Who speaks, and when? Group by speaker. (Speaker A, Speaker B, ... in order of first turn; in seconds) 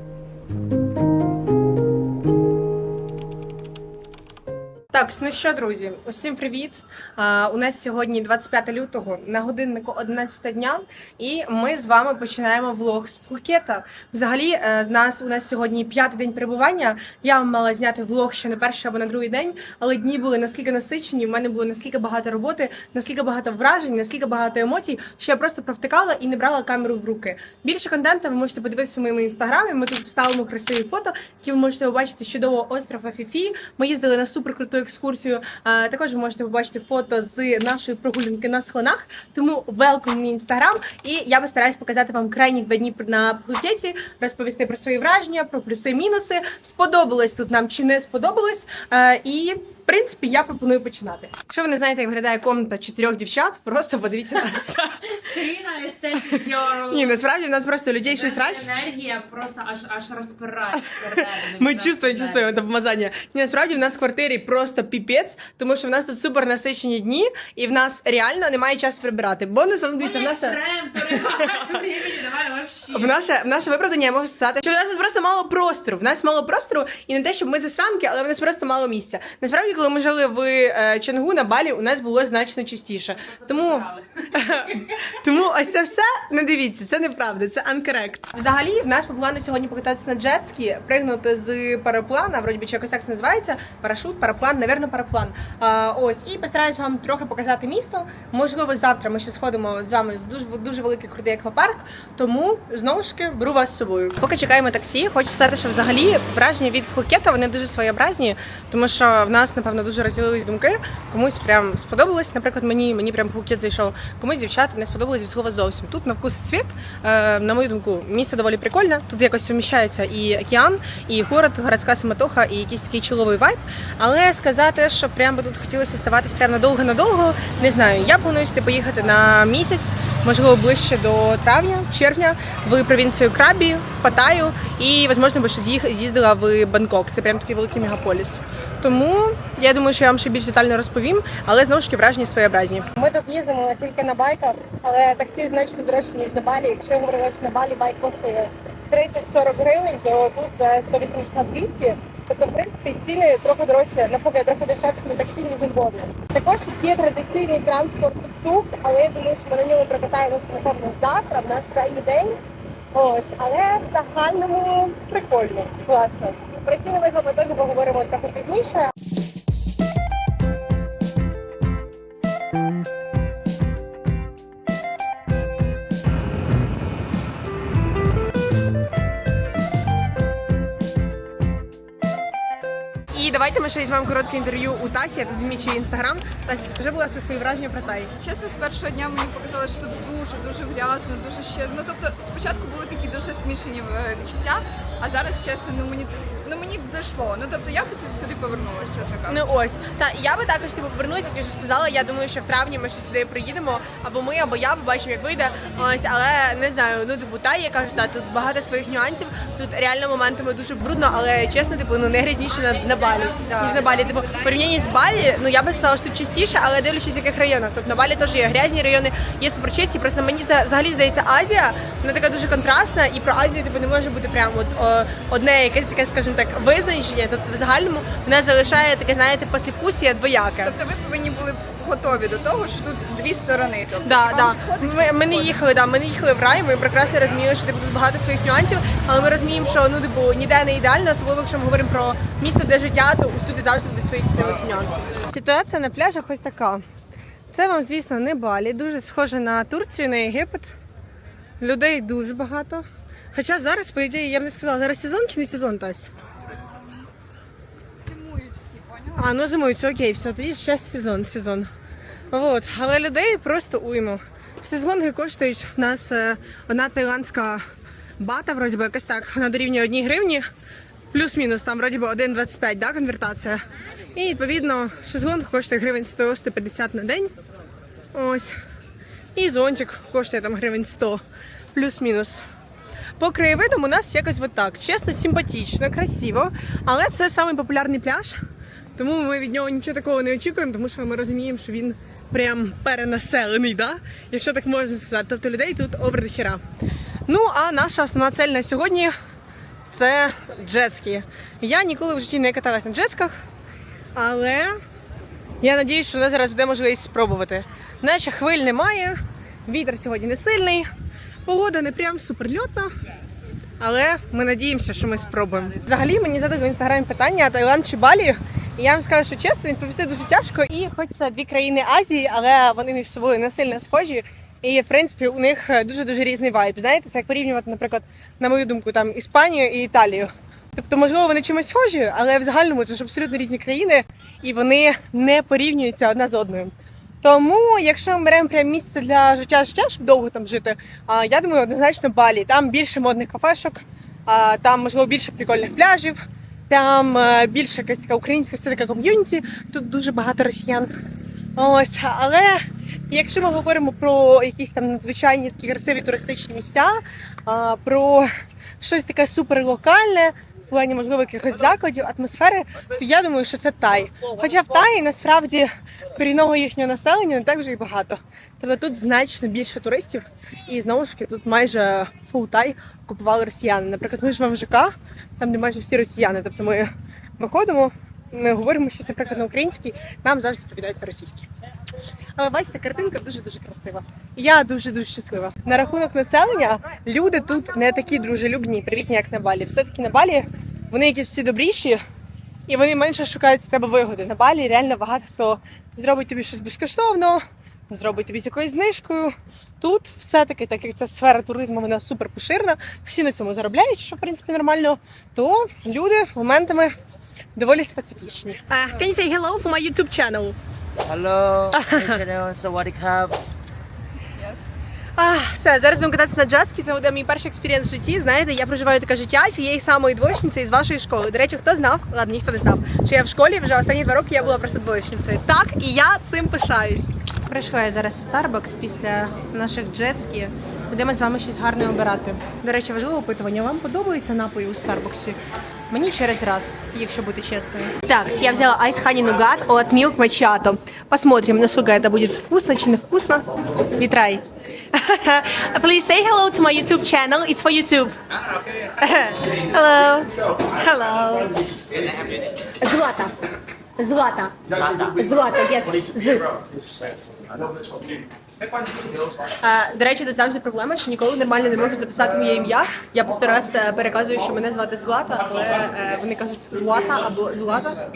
Speaker A: 4.9-55.2, 56.3-58.7, 60.8-71.7, 72.9-162.4, 162.9-168.9, 183.1-188.1, 199.3-230.8, 234.1-246.8, 247.5-250.7, 251.6-256.1, 259.1-261.7, 262.3-267.6, 268.2-270.4, 271.1-273.6, 274.1-277.3, 278.1-278.6, 279.4-281.2, 281.7-282.4, 283.2-288.4, 289.0-296.6, 297.3-299.1, 299.9-303.3, 304.2-304.8, 305.6-310.9, 311.5-312.9, 313.8-350.9, 351.6-358.3, 358.8-381.5, 382.4-392.0, 392.7-406.9, 407.6-410.6, 411.7-412.2, 415.2-435.4, 435.9-443.4, 444.0-448.2, 449.0-451.5, 452.7-453.3, 454.0-456.6, 459.6-468.0
Speaker B: 55.2-57.2, 58.0-62.5, 70.0-73.2, 212.5-214.7
Speaker C: 188.2-199.4, 230.6-235.6, 258.0-259.3, 414.4-414.6
Speaker D: 411.1-413.4